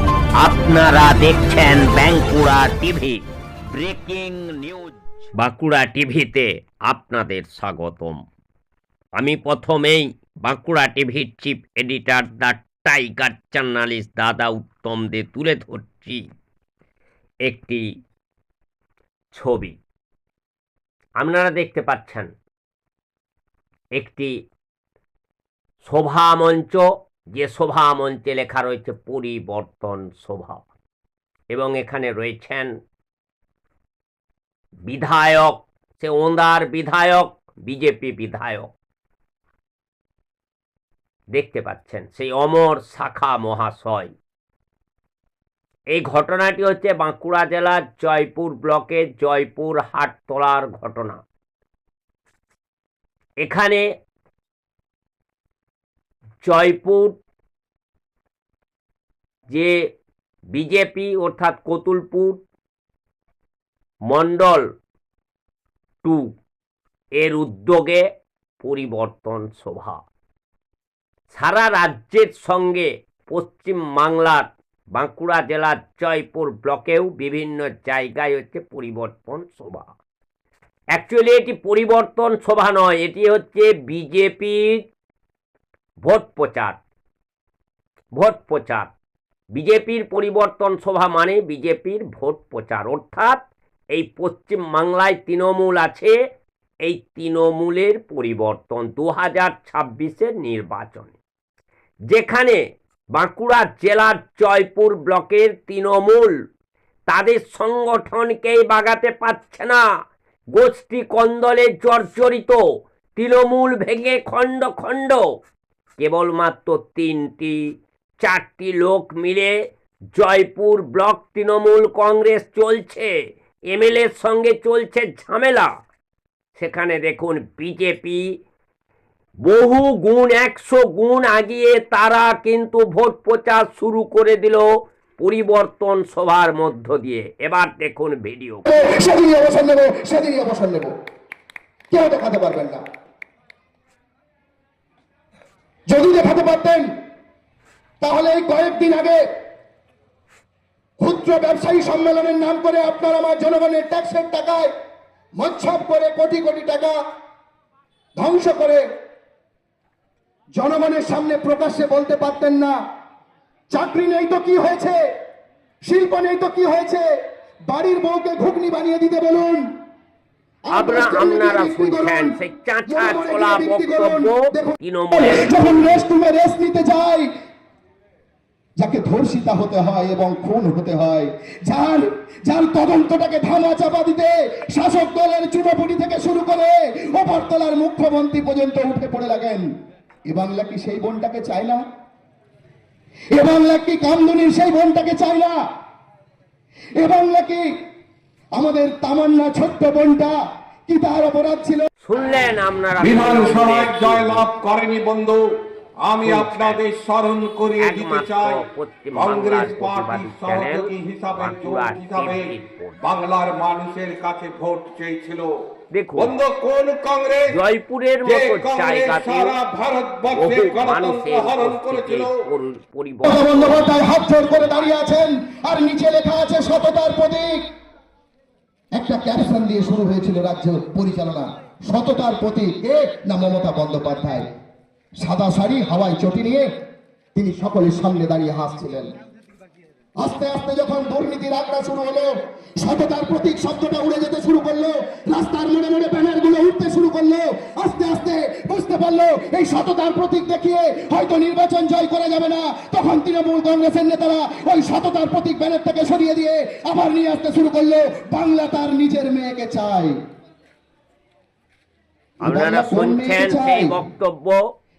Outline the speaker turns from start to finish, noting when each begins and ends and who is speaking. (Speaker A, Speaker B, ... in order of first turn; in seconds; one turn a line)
Speaker A: 0.4-3.2
Speaker A: 3.7-8.2
Speaker A: 9.2-16.3
Speaker A: 17.4-17.8
Speaker A: 19.3-19.8
Speaker A: 21.2-22.3
Speaker A: 24.0-24.3
Speaker A: 25.8-30.6
Speaker A: 31.5-32.7
Speaker A: 34.9-38.7
Speaker A: 41.3-44.1
Speaker A: 45.9-51.2
Speaker A: 53.4-53.8
Speaker A: 56.5-57.2
Speaker A: 60.5-62.4
Speaker A: 64.1-64.6
Speaker A: 67.2-68.0
Speaker A: 68.6-70.0
Speaker A: 71.3-79.9
Speaker A: 81.0-84.8
Speaker A: 86.0-86.8
Speaker A: 88.2-88.9
Speaker A: 89.5-93.4
Speaker A: 93.9-96.2
Speaker A: 96.8-101.2
Speaker A: 102.1-102.6
Speaker A: 103.1-106.3
Speaker A: 107.1-109.8
Speaker A: 110.5-112.6
Speaker A: 113.2-115.2
Speaker A: 116.0-117.6
Speaker A: 118.2-119.5
Speaker A: 120.2-123.1
Speaker A: 123.7-125.7
Speaker A: 126.5-128.2
Speaker A: 129.4-134.7
Speaker A: 135.2-138.7
Speaker B: 138.7-140.9
Speaker B: 141.9-142.8
Speaker B: 145.9-146.9
Speaker B: 148.0-149.2
Speaker B: 151.0-154.7
Speaker B: 155.4-156.9
Speaker B: 158.2-158.8
Speaker B: 160.6-162.7
Speaker B: 163.7-165.0
Speaker B: 165.9-167.1
Speaker B: 167.7-169.7
Speaker B: 170.7-177.3
Speaker A: 170.7-176.1
Speaker B: 178.8-189.7
Speaker B: 190.3-191.8
Speaker B: 193.3-195.6
Speaker B: 197.0-197.7
Speaker B: 198.6-200.3
Speaker B: 200.9-201.9
Speaker A: 202.0-204.5
Speaker C: 203.0-205.4
Speaker C: 206.0-215.5
Speaker A: 206.2-206.8
Speaker A: 207.8-213.0
Speaker A: 215.9-216.3
Speaker C: 216.2-217.5
Speaker A: 217.5-219.6
Speaker C: 218.2-222.4
Speaker A: 220.3-225.0
Speaker B: 223.2-227.7
Speaker B: 228.9-234.5
Speaker B: 235.2-236.7
Speaker B: 237.3-239.1
Speaker B: 240.2-260.1
Speaker A: 262.4-264.6
Speaker B: 262.4-263.9